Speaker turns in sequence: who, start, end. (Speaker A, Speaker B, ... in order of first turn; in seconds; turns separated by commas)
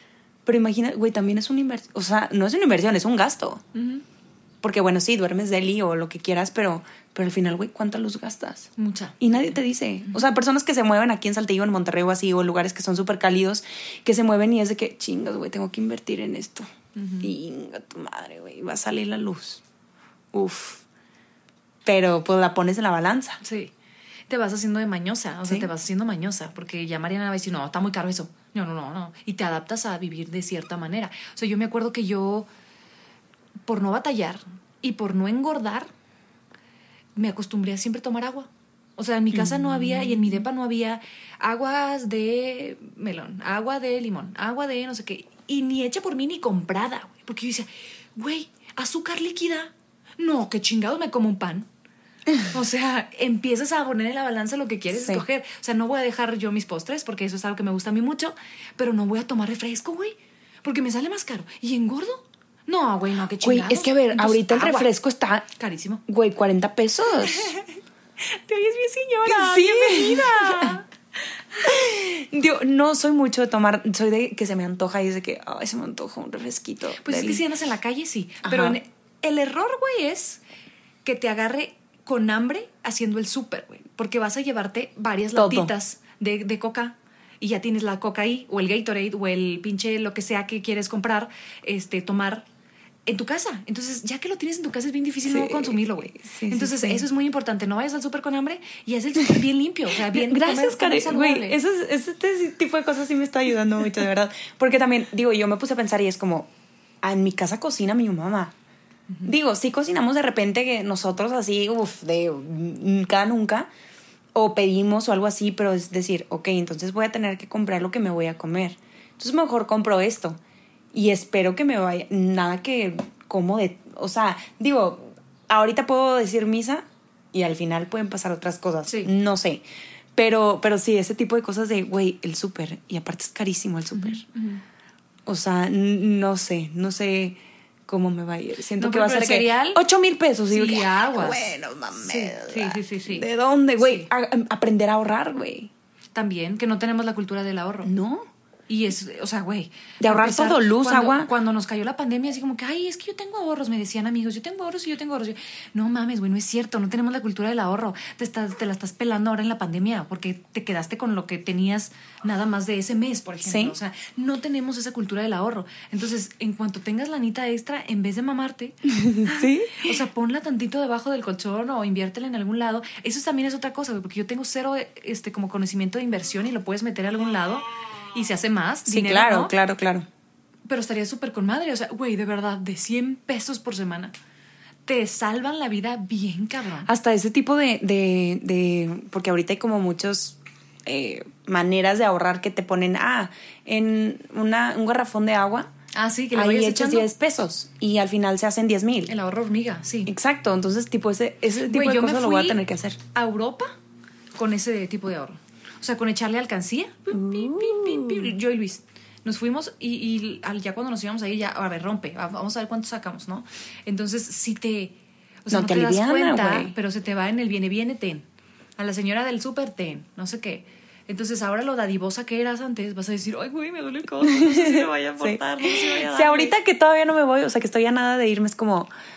Speaker A: 0.5-3.6, Speaker B: 3.7-4.0, Speaker A: 4.6-16.7, Speaker B: 8.8-9.6, Speaker B: 17.0-17.3, Speaker A: 17.2-19.6, Speaker A: 20.3-20.8, Speaker A: 21.9-23.4, Speaker B: 23.4-23.7, Speaker B: 24.3-32.5, Speaker A: 25.4-25.7, Speaker B: 33.7-35.9, Speaker B: 37.2-51.7, Speaker A: 39.3-39.7, Speaker B: 52.4-64.9, Speaker A: 54.9-55.2, Speaker A: 63.4-65.5, Speaker B: 65.6-66.0, Speaker A: 66.1-67.5, Speaker B: 68.3-70.8, Speaker A: 69.3-70.8, Speaker A: 71.6-77.4, Speaker B: 77.0-80.4, Speaker A: 78.4-78.8, Speaker B: 81.0-92.5, Speaker A: 85.3-85.7, Speaker B: 93.1-101.6, Speaker A: 95.3-97.1, Speaker A: 100.0-106.5, Speaker A: 107.0-108.5, Speaker A: 109.2-113.7, Speaker A: 114.3-120.4, Speaker A: 120.9-129.6, Speaker A: 130.2-134.2, Speaker B: 133.9-134.6, Speaker A: 135.3-145.7, Speaker B: 138.8-139.8, Speaker B: 140.5-143.3, Speaker B: 143.8-144.1, Speaker B: 146.2-147.9, Speaker A: 147.8-148.3, Speaker B: 148.7-179.5, Speaker A: 150.0-151.3, Speaker A: 163.4-163.8, Speaker A: 168.9-170.0, Speaker A: 178.9-180.1, Speaker B: 180.7-184.1, Speaker B: 184.9-186.9, Speaker A: 186.9-195.7, Speaker B: 195.9-197.1, Speaker A: 196.3-199.1, Speaker B: 199.1-200.1, Speaker A: 200.1-203.0, Speaker B: 201.6-202.6, Speaker B: 203.1-203.8, Speaker B: 204.4-218.3, Speaker A: 207.1-208.3, Speaker A: 215.5-216.8, Speaker B: 218.8-226.6, Speaker A: 224.3-228.9